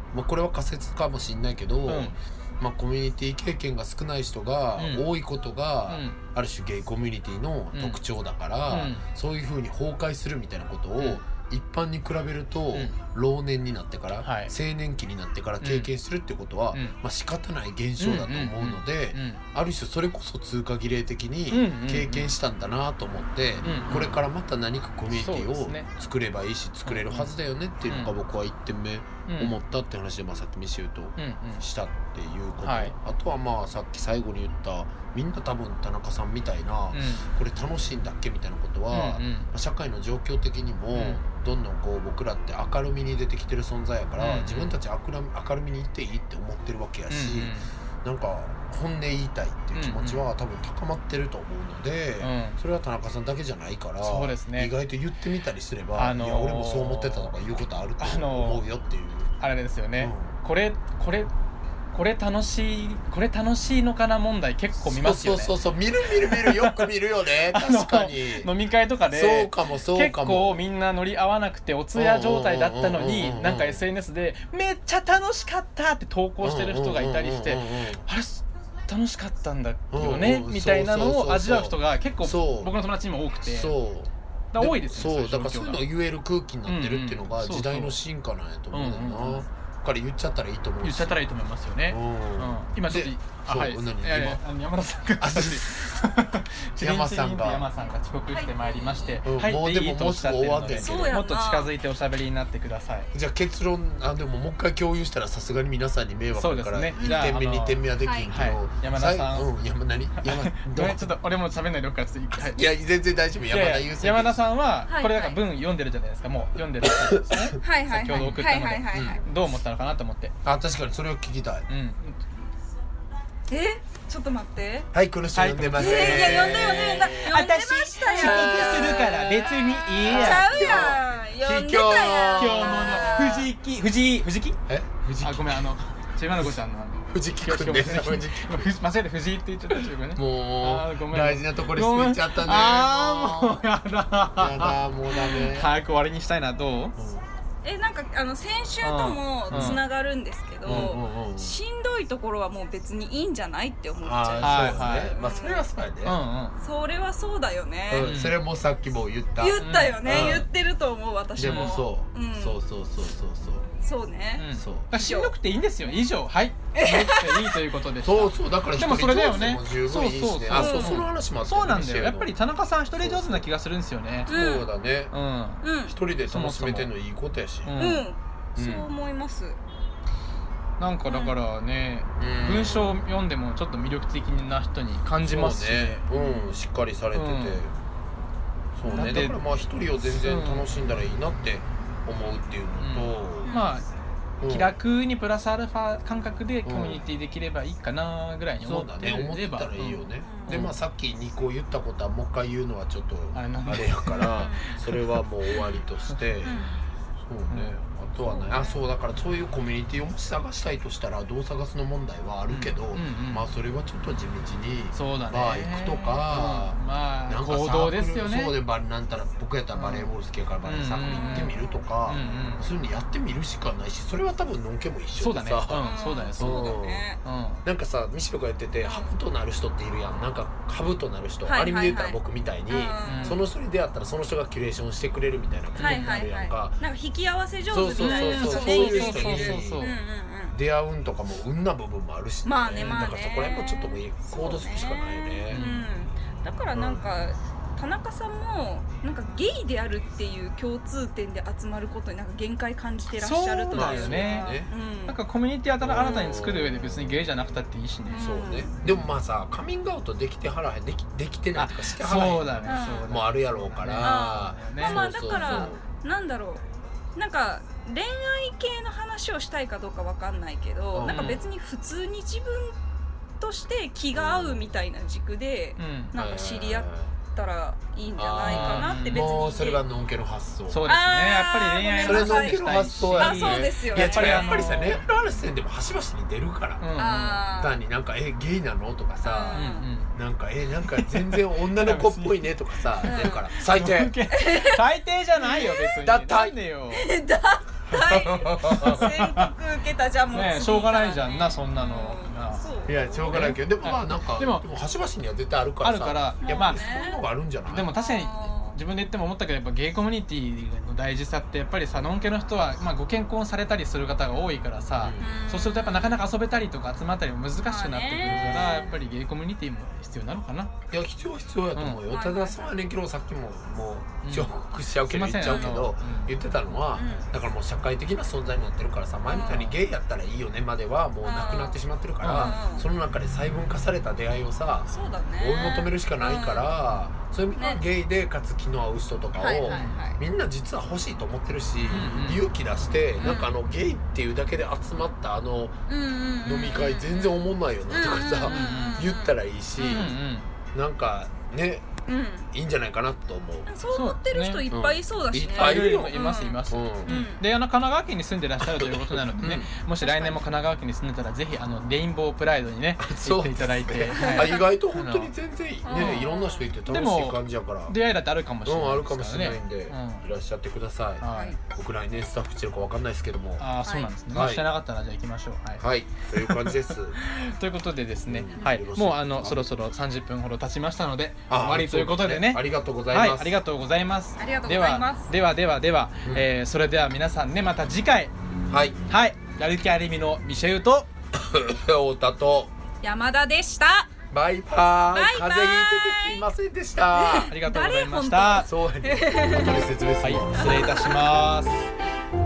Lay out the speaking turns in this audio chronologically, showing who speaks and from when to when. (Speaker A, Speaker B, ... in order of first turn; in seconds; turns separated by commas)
Speaker A: 0.1-59.3, Speaker B: 1.9-2.1, Speaker B: 4.8-5.0, Speaker B: 5.9-6.2, Speaker B: 7.7-8.0, Speaker B: 8.7-9.0, Speaker B: 12.7-13.0, Speaker B: 14.2-14.5, Speaker B: 15.6-15.9, Speaker B: 16.7-17.0, Speaker B: 18.0-19.4, Speaker B: 21.5-22.3, Speaker B: 23.6-24.2, Speaker B: 25.1-25.9, Speaker B: 26.8-28.1, Speaker B: 29.3-29.5, Speaker B: 31.2-31.6, Speaker B: 32.6-32.9, Speaker B: 36.9-37.3, Speaker B: 38.9-39.5, Speaker B: 40.9-41.2, Speaker B: 44.2-44.7, Speaker B: 47.1-47.7, Speaker B: 49.7-50.2, Speaker B: 52.2-52.6, Speaker B: 54.0-54.7, Speaker B: 56.0-57.3, Speaker B: 58.0-58.6, Speaker B: 59.4-61.3, Speaker A: 60.0-60.3, Speaker B: 61.9-65.5, Speaker A: 64.8-68.5, Speaker B: 66.1-66.8, Speaker B: 67.5-83.7, Speaker A: 69.1-70.6, Speaker A: 71.9-73.8, Speaker A: 76.4-78.0, Speaker A: 79.9-82.8, Speaker A: 83.4-91.2, Speaker B: 84.5-85.9, Speaker B: 86.6-88.0, Speaker B: 88.7-89.4, Speaker B: 90.8-103.1, Speaker A: 91.9-94.4, Speaker A: 95.2-96.1, Speaker A: 96.8-97.7, Speaker C: 98.3-99.2, Speaker A: 99.2-101.2, Speaker C: 100.7-101.7, Speaker A: 103.1-111.1, Speaker B: 106.3-109.5, Speaker C: 107.0-107.2, Speaker C: 108.0-108.3, Speaker B: 110.2-112.7, Speaker A: 112.4-114.4, Speaker B: 113.5-120.3, Speaker C: 114.9-115.4, Speaker A: 116.8-117.6, Speaker C: 117.6-119.2, Speaker A: 118.9-119.2, Speaker A: 120.4-121.7, Speaker B: 121.7-122.2, Speaker C: 123.5-124.9, Speaker A: 124.9-127.4, Speaker B: 125.3-130.9, Speaker C: 125.8-133.5, Speaker A: 128.1-129.3, Speaker A: 129.9-133.1, Speaker B: 132.3-134.6, Speaker A: 134.7-135.7, Speaker B: 135.2-146.9, Speaker A: 137.1-138.7, Speaker A: 140.1-143.6, Speaker A: 144.3-145.7, Speaker A: 147.0-147.2, Speaker C: 147.6-155.7, Speaker B: 148.8-149.8, Speaker A: 149.5-149.8, Speaker A: 150.6-151.6, Speaker B: 150.7-150.9, Speaker A: 154.0-156.2, Speaker B: 154.4-155.1, Speaker B: 156.0-156.6, Speaker C: 156.6-158.2, Speaker A: 157.9-160.5, Speaker B: 158.0-158.4, Speaker C: 159.4-162.6, Speaker B: 159.6-160.4, Speaker A: 161.4-163.7, Speaker B: 161.4-161.8, Speaker C: 163.8-165.3, Speaker B: 164.4-174.4, Speaker A: 164.5-164.9, Speaker C: 166.7-167.6, Speaker A: 168.0-172.4, Speaker C: 170.5-171.0, Speaker A: 172.9-173.4, Speaker A: 174.2-175.1, Speaker C: 174.3-174.7, Speaker B: 175.1-175.6, Speaker C: 175.6-175.9, Speaker A: 175.9-177.7, Speaker B: 176.3-176.9, Speaker B: 177.6-178.1, Speaker C: 177.8-179.6, Speaker A: 178.6-178.9, Speaker B: 180.8-186.0, Speaker C: 181.1-181.3, Speaker A: 182.2-183.0, Speaker A: 185.2-187.7, Speaker C: 186.1-186.6, Speaker B: 187.1-187.6, Speaker A: 188.8-193.6, Speaker C: 188.8-189.3, Speaker B: 188.9-189.4, Speaker B: 190.1-190.7, Speaker B: 192.8-193.9, Speaker C: 193.4-193.8, Speaker A: 194.4-194.7, Speaker B: 194.5-200.8, Speaker A: 196.6-197.0, Speaker A: 198.6-206.6, Speaker C: 200.2-200.6, Speaker B: 203.3-204.9, Speaker C: 204.2-204.8, Speaker C: 206.4-206.8, Speaker A: 207.2-227.1, Speaker C: 208.2-208.8, Speaker B: 212.5-213.5, Speaker B: 214.9-218.6, Speaker B: 219.7-220.1, Speaker B: 220.6-222.6, Speaker C: 221.1-222.6, Speaker B: 225.2-227.6, Speaker C: 225.8-227.2, Speaker A: 227.6-236.8, Speaker C: 228.8-229.1, Speaker C: 231.4-233.4, Speaker B: 233.0-233.4, Speaker B: 235.8-236.2, Speaker C: 235.8-240.6, Speaker A: 237.7-239.9, Speaker B: 238.0-239.9, Speaker A: 240.5-245.7, Speaker C: 242.4-255.2, Speaker B: 242.8-243.1, Speaker B: 245.5-245.8, Speaker A: 246.7-247.1, Speaker B: 253.2-254.5, Speaker A: 253.7-254.7, Speaker B: 255.1-258.2, Speaker A: 255.8-257.2, Speaker C: 258.1-258.8, Speaker A: 258.1-265.8, Speaker B: 261.5-265.7, Speaker C: 262.7-263.1, Speaker C: 264.0-266.6, Speaker C: 267.1-272.7, Speaker A: 270.9-271.4, Speaker B: 271.1-271.4, Speaker C: 273.4-279.8, Speaker A: 274.1-274.7, Speaker B: 275.8-276.1, Speaker A: 276.1-277.1, Speaker A: 278.1-280.8, Speaker B: 278.4-279.4, Speaker B: 280.7-285.1, Speaker C: 280.9-284.7, Speaker A: 282.0-286.9, Speaker B: 286.8-287.4, Speaker C: 286.9-287.8, Speaker A: 287.5-294.1, Speaker C: 289.2-289.9, Speaker B: 289.5-290.1, Speaker B: 290.9-297.1, Speaker C: 293.0-293.5, Speaker C: 294.3-294.9, Speaker C: 295.4-296.0, Speaker A: 296.0-296.6, Speaker C: 296.9-303.6, Speaker A: 297.9-299.1, Speaker B: 298.7-299.5, Speaker B: 300.3-302.6, Speaker A: 302.9-307.9, Speaker B: 303.3-304.6, Speaker B: 305.8-306.8, Speaker C: 306.4-307.2, Speaker B: 307.7-320.7, Speaker C: 307.9-308.8, Speaker A: 315.0-315.4, Speaker C: 315.2-316.2, Speaker C: 317.6-318.9, Speaker A: 318.2-318.9, Speaker A: 320.9-345.8, Speaker B: 321.7-322.0, Speaker C: 322.1-322.6, Speaker B: 324.2-324.5, Speaker B: 325.1-326.3, Speaker C: 325.4-325.8, Speaker C: 326.9-327.3, Speaker C: 329.2-329.7, Speaker C: 331.2-332.8, Speaker B: 332.2-332.6, Speaker C: 334.9-336.7, Speaker C: 337.6-337.8, Speaker C: 339.4-340.2, Speaker B: 339.7-340.0, Speaker B: 341.9-342.4, Speaker C: 343.2-343.5, Speaker C: 345.9-350.1, Speaker A: 346.4-350.2, Speaker B: 348.5-349.0, Speaker B: 349.9-350.5, Speaker A: 350.7-351.9, Speaker C: 352.1-352.5, Speaker A: 352.5-353.7, Speaker C: 353.7-357.4, Speaker B: 353.9-354.6, Speaker A: 354.7-357.2, Speaker B: 355.5-365.3, Speaker A: 358.6-359.7, Speaker C: 360.0-360.4, Speaker A: 363.0-368.0, Speaker C: 364.2-364.6, Speaker C: 365.8-366.7, Speaker B: 365.9-366.2, Speaker B: 366.9-370.2, Speaker A: 368.6-373.6, Speaker B: 371.2-371.6, Speaker C: 371.3-371.6, Speaker B: 373.6-375.8, Speaker C: 373.8-374.1, Speaker A: 374.3-374.7, Speaker A: 375.8-377.2, Speaker B: 376.4-388.3, Speaker A: 378.3-379.6, Speaker A: 381.5-383.5, Speaker C: 384.4-385.3, Speaker A: 388.7-389.0, Speaker B: 389.1-391.1, Speaker A: 391.3-392.7, Speaker C: 393.0-394.1, Speaker A: 394.3-397.5, Speaker C: 395.1-396.4, Speaker C: 397.1-399.8, Speaker B: 397.5-398.7, Speaker A: 398.6-401.1, Speaker B: 400.2-401.9, Speaker C: 400.6-401.1